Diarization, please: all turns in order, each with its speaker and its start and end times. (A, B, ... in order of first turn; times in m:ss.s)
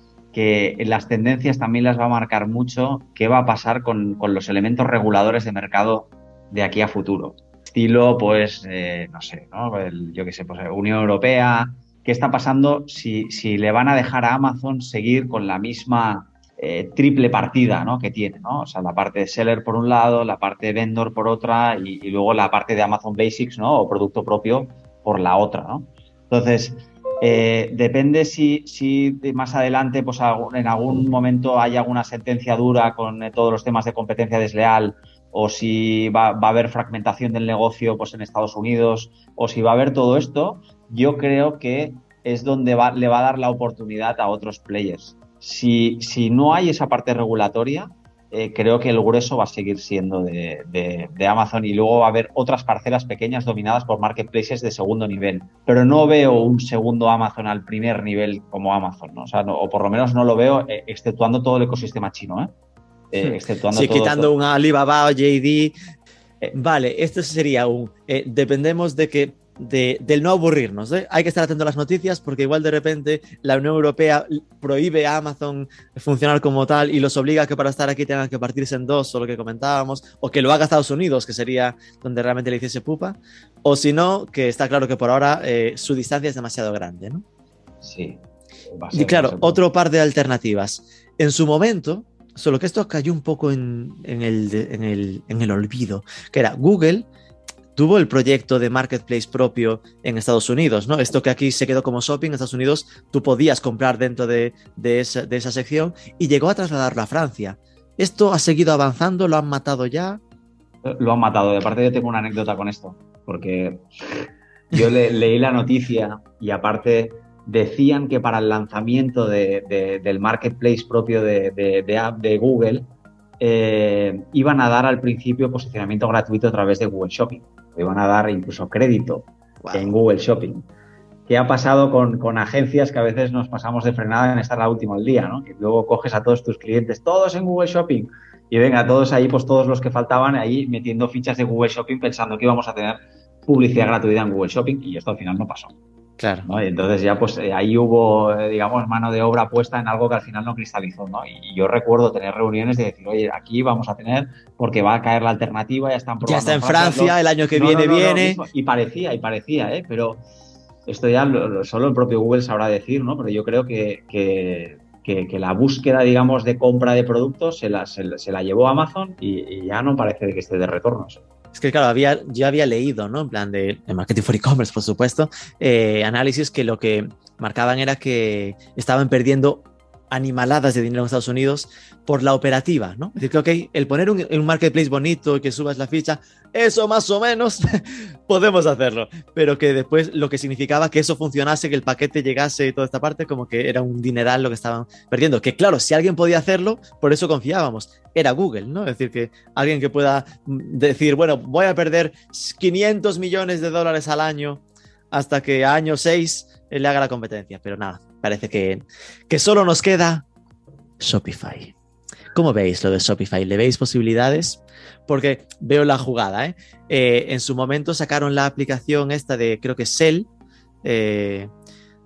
0:00.3-1:02.5 A
1:03.1-1:04.3 A
1:03.7-1:05.8 B
1:06.5-1:27.2 B
1:27.8-1:29.6 A
1:28.9-1:37.1 B
1:37.8-1:50.2 B
1:50.8-2:02.9 A
2:03.4-2:10.7 A
2:09.6-2:09.9 B
2:11.3-2:25.8 A
2:26.2-2:26.5 B
2:26.5-2:40.2 A
2:36.2-2:38.4 B
2:40.9-2:51.2 A
2:51.5-3:30.2 B
3:31.0-3:31.7 B
3:32.3-3:40.3 B
3:40.8-3:41.5 B